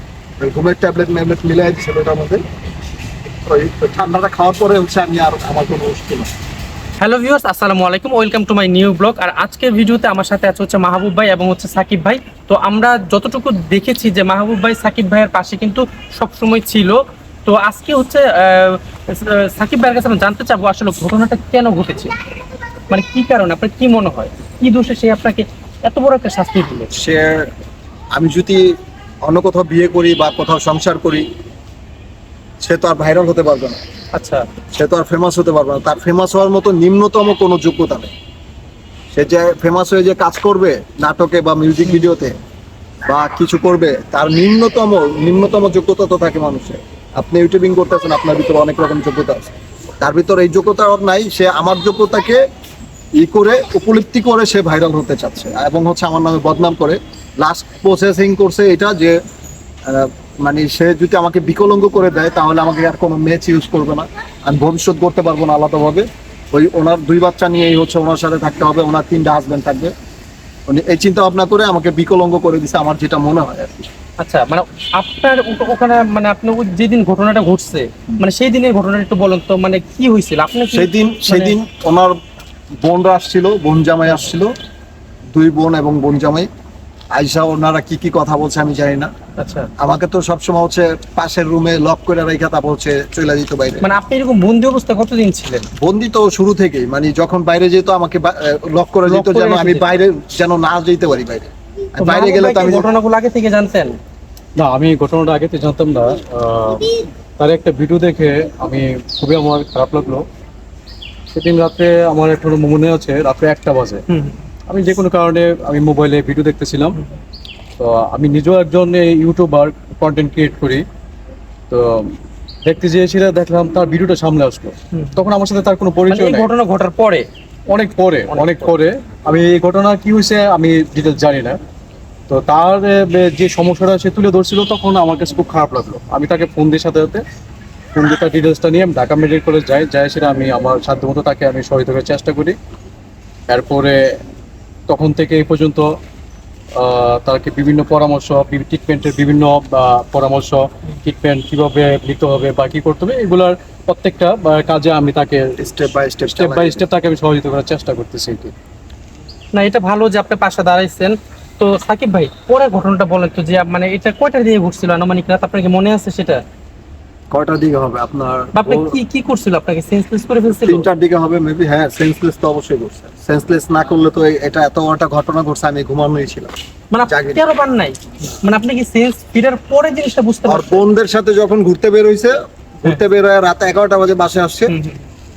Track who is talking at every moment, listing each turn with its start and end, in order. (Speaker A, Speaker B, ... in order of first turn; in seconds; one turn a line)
Speaker A: 0.4-2.4
Speaker A: 3.5-6.3
Speaker B: 7.0-22.1
Speaker B: 22.9-26.9
Speaker A: 26.9-27.5
Speaker A: 28.1-31.3
Speaker A: 32.6-33.8
Speaker B: 34.1-34.5
Speaker A: 34.7-38.1
Speaker A: 39.1-42.4
Speaker A: 43.1-52.5
Speaker A: 53.2-59.2
Speaker A: 59.9-69.9
Speaker A: 70.7-73.9
Speaker B: 74.2-81.6
Speaker A: 80.7-82.2
Speaker A: 82.8-84.5
Speaker A: 85.3-86.5
Speaker A: 87.1-89.1
Speaker B: 89.4-89.7
Speaker A: 89.8-93.9
Speaker B: 93.8-95.7
Speaker A: 95.8-102.9
Speaker B: 99.1-100.0
Speaker B: 102.0-104.0
Speaker C: 104.6-110.2
Speaker C: 111.3-114.0
Speaker B: 114.1-114.4
Speaker C: 114.7-117.0
Speaker C: 117.8-120.8
Speaker C: 121.7-126.5
Speaker B: 124.9-125.2
Speaker B: 126.1-127.3
Speaker C: 127.7-131.6
Speaker B: 128.3-128.7
Speaker C: 132.3-137.2
Speaker C: 137.9-142.6
Speaker C: 143.5-144.2
Speaker C: 144.9-145.9
Speaker C: 146.8-155.5
Speaker A: 155.6-156.8
Speaker C: 156.2-158.5
Speaker B: 159.5-166.4
Speaker A: 167.3-169.0
Speaker B: 168.6-170.9
Speaker A: 170.6-176.5
Speaker B: 176.9-180.8
Speaker A: 177.1-177.4
Speaker A: 180.5-184.7
Speaker B: 184.7-185.0